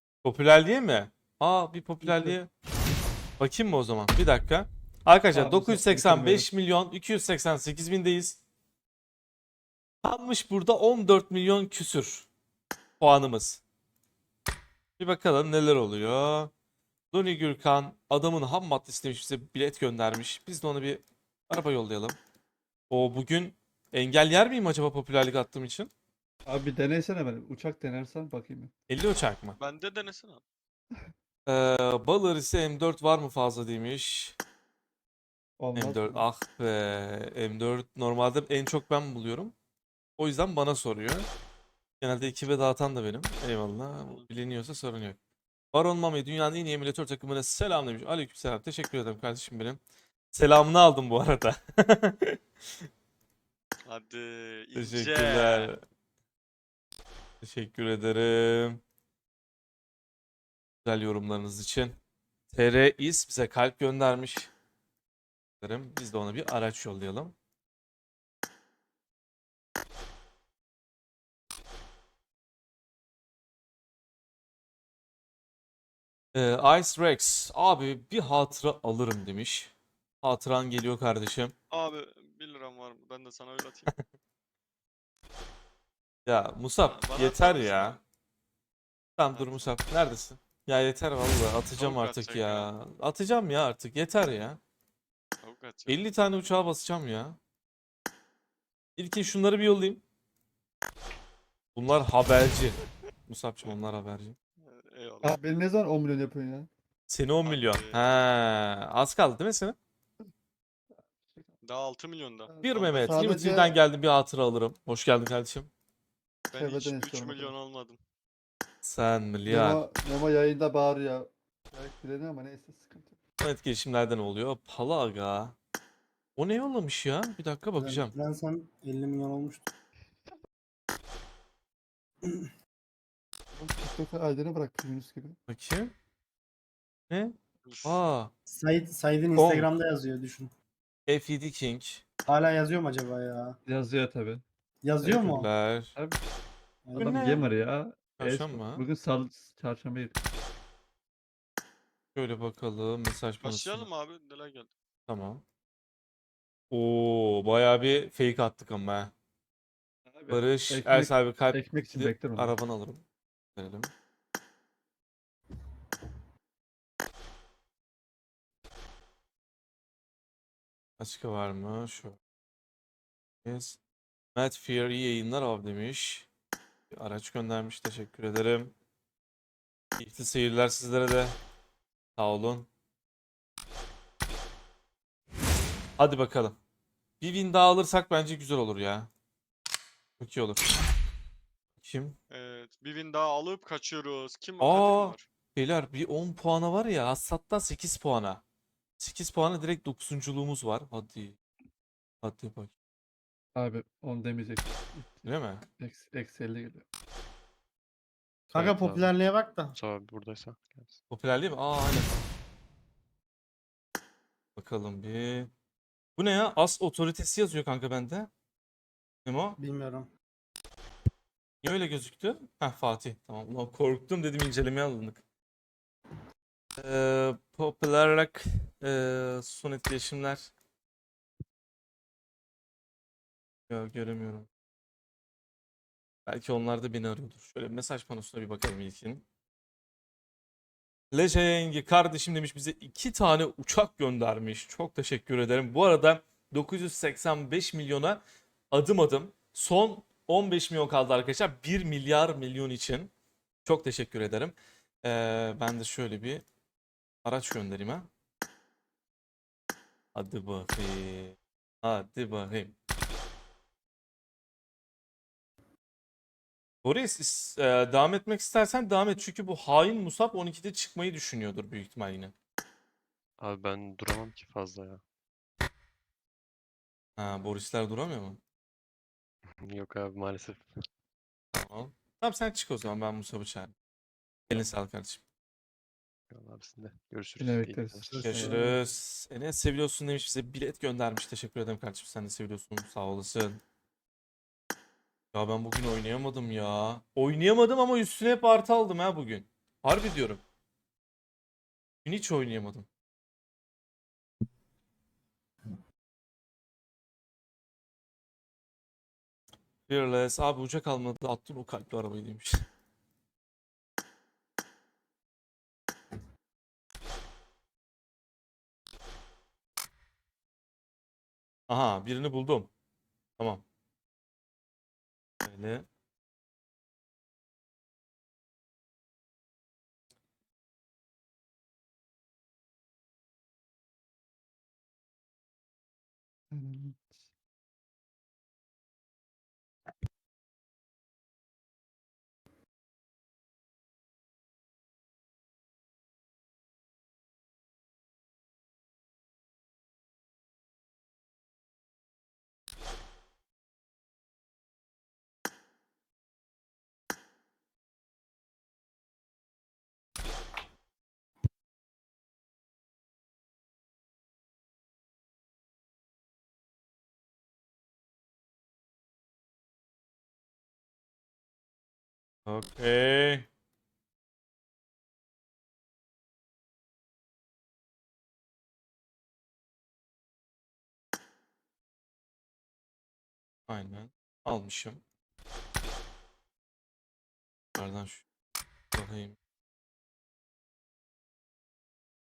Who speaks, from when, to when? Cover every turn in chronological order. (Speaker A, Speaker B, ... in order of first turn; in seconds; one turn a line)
Speaker A: 0.2-2.5
Speaker B: 2.0-2.4
Speaker A: 3.4-8.4
Speaker B: 5.3-6.5
Speaker A: 10.0-12.3
Speaker A: 13.0-13.6
Speaker A: 15.0-16.5
Speaker A: 17.1-22.2
Speaker A: 22.9-25.9
Speaker B: 26.4-28.7
Speaker A: 28.9-29.6
Speaker C: 29.6-30.4
Speaker A: 31.4-34.4
Speaker B: 35.6-36.3
Speaker A: 35.7-39.5
Speaker A: 40.2-41.3
Speaker A: 42.0-45.2
Speaker A: 45.7-49.8
Speaker A: 50.3-52.4
Speaker C: 53.8-55.7
Speaker A: 54.7-55.8
Speaker A: 57.4-58.8
Speaker A: 60.8-62.0
Speaker A: 62.5-64.5
Speaker A: 65.6-67.3
Speaker A: 76.3-81.5
Speaker C: 81.7-83.9
Speaker A: 86.2-88.0
Speaker C: 86.9-88.0
Speaker A: 89.2-94.6
Speaker C: 89.3-89.8
Speaker C: 91.8-92.7
Speaker C: 95.4-96.0
Speaker A: 95.9-97.4
Speaker A: 99.0-100.0
Speaker A: 101.7-104.3
Speaker C: 104.6-105.4
Speaker B: 105.2-106.7
Speaker A: 107.1-109.8
Speaker C: 107.5-108.2
Speaker B: 110.9-111.5
Speaker C: 111.6-113.0
Speaker B: 112.5-113.8
Speaker A: 112.6-115.7
Speaker C: 116.5-118.0
Speaker B: 116.5-117.5
Speaker A: 118.8-119.8
Speaker B: 119.5-123.2
Speaker A: 123.4-125.5
Speaker A: 126.4-128.1
Speaker D: 127.8-129.7
Speaker B: 133.5-135.4
Speaker A: 135.5-135.9
Speaker A: 137.1-138.3
Speaker C: 137.6-138.0
Speaker D: 138.5-140.5
Speaker A: 139.3-139.7
Speaker A: 141.1-142.0
Speaker D: 142.3-143.6
Speaker B: 143.7-144.4
Speaker D: 144.8-145.5
Speaker A: 145.0-145.9
Speaker D: 146.8-147.5
Speaker B: 146.9-150.2
Speaker A: 148.2-148.8
Speaker A: 152.1-153.9
Speaker C: 153.4-154.7
Speaker A: 155.1-155.4
Speaker A: 156.7-159.1
Speaker B: 160.1-162.5
Speaker A: 160.3-163.0
Speaker A: 163.6-163.9
Speaker A: 171.0-172.2
Speaker A: 173.4-173.8
Speaker A: 174.3-176.3
Speaker A: 176.9-178.7
Speaker A: 180.0-181.4
Speaker A: 182.2-182.7
Speaker A: 186.0-186.6
Speaker A: 187.2-189.1
Speaker A: 190.2-190.7
Speaker A: 191.8-192.2
Speaker C: 192.3-195.2
Speaker A: 194.6-198.4
Speaker A: 199.0-201.4
Speaker A: 202.2-202.7
Speaker B: 203.6-205.2
Speaker A: 205.2-205.6
Speaker B: 205.8-206.8
Speaker E: 208.5-209.2
Speaker D: 208.5-209.8
Speaker E: 209.7-211.0
Speaker A: 211.1-212.1
Speaker A: 214.6-215.5
Speaker A: 216.2-218.3
Speaker A: 219.2-219.6
Speaker D: 219.6-220.1
Speaker A: 221.6-225.2
Speaker A: 226.8-230.5
Speaker A: 233.7-234.5
Speaker A: 236.2-239.2
Speaker A: 241.1-253.1
Speaker A: 253.6-256.4
Speaker A: 257.2-258.1
Speaker A: 260.1-262.7
Speaker A: 266.8-272.3
Speaker E: 273.4-275.0
Speaker A: 277.2-278.4
Speaker E: 279.5-280.7
Speaker A: 281.5-283.7
Speaker A: 284.5-285.2
Speaker E: 286.3-288.5
Speaker B: 287.4-288.8
Speaker D: 288.1-288.6
Speaker A: 288.2-293.6
Speaker A: 295.3-300.4
Speaker A: 302.0-302.9
Speaker A: 309.9-312.6
Speaker A: 321.7-322.7
Speaker A: 325.4-325.9
Speaker B: 336.5-337.2
Speaker A: 372.4-373.4
Speaker A: 383.7-385.0
Speaker A: 387.8-388.2
Speaker A: 388.9-389.4